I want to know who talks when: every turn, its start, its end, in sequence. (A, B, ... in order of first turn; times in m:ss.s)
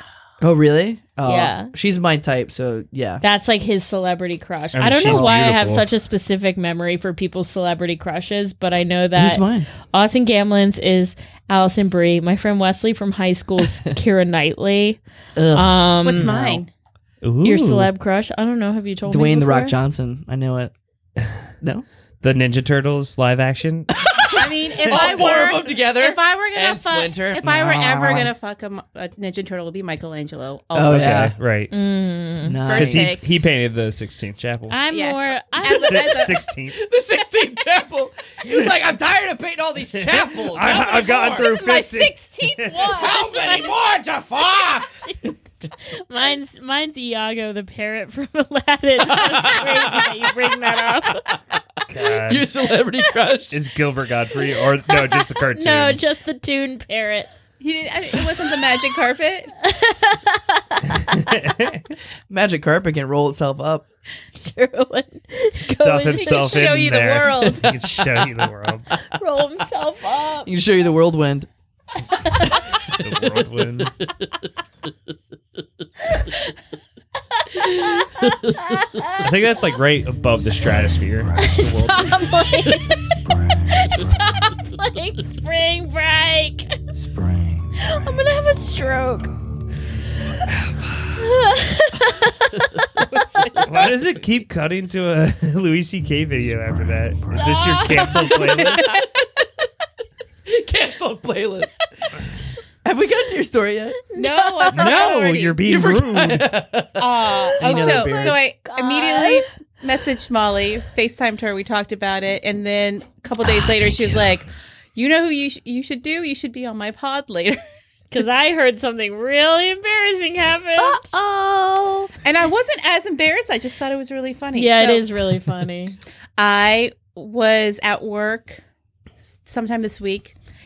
0:00.4-0:03.2 A
0:01.2-0:01.7 B
0:03.2-0:15.0 B
0:04.7-0:05.8 C
0:05.0-0:05.5 A
0:09.1-0:09.7 A
0:15.4-0:16.6 A
0:15.5-0:16.3 B
0:16.0-0:16.7 D
0:17.2-0:17.9 C
0:17.4-0:19.8 B
0:19.1-0:20.7 A
0:22.2-0:23.9 C
0:24.0-0:28.3 A
0:24.3-0:31.3 D
0:30.7-0:31.3 A
0:30.9-0:31.7 C
0:31.7-0:32.6 B
0:32.4-0:33.2 A
0:32.6-0:33.5 D
0:32.7-0:34.8 C
0:34.7-0:36.3 B
0:34.9-0:36.4 D
0:35.6-0:36.8 C
0:36.7-0:41.5 A
0:40.0-0:42.7 C
0:41.2-0:43.4 D
0:42.8-0:45.3 A
0:43.4-0:43.7 B
0:45.0-0:51.3 B
0:49.1-0:50.1 A
0:51.9-0:52.5 C
0:52.3-0:53.6 A
0:53.5-0:56.0 C
0:54.9-0:57.3 B
0:57.6-0:59.5 D
0:59.6-1:01.2 B
1:00.9-1:01.8 C
1:02.3-1:03.8 A
1:04.4-1:06.8 B
1:05.6-1:08.9 C
1:06.1-1:07.7 D
1:09.1-1:10.5 B
1:10.4-1:11.5 A
1:12.9-1:13.9 C
1:17.5-1:19.3 B
1:18.2-1:18.5 A
1:19.2-1:22.0 C
1:20.5-1:24.5 E
1:21.4-1:23.1 B
1:23.7-1:26.8 B
1:26.9-1:29.5 E
1:27.8-1:29.3 B
1:30.3-1:30.7 E
1:31.2-1:32.7 B
1:33.0-1:34.0 D
1:33.6-1:38.9 C
1:36.4-1:38.1 E
1:37.3-1:39.0 B
1:40.4-1:41.7 A
1:42.8-1:44.0 A
1:44.1-1:45.0 B
1:44.1-1:45.6 D
1:44.7-1:46.5 C
1:45.6-1:48.4 A
1:47.0-1:57.6 D
1:47.6-1:49.4 B
1:58.1-2:01.1 B
2:00.8-2:05.1 D
2:04.5-2:06.0 B
2:06.4-2:08.6 D
2:09.4-2:10.3 D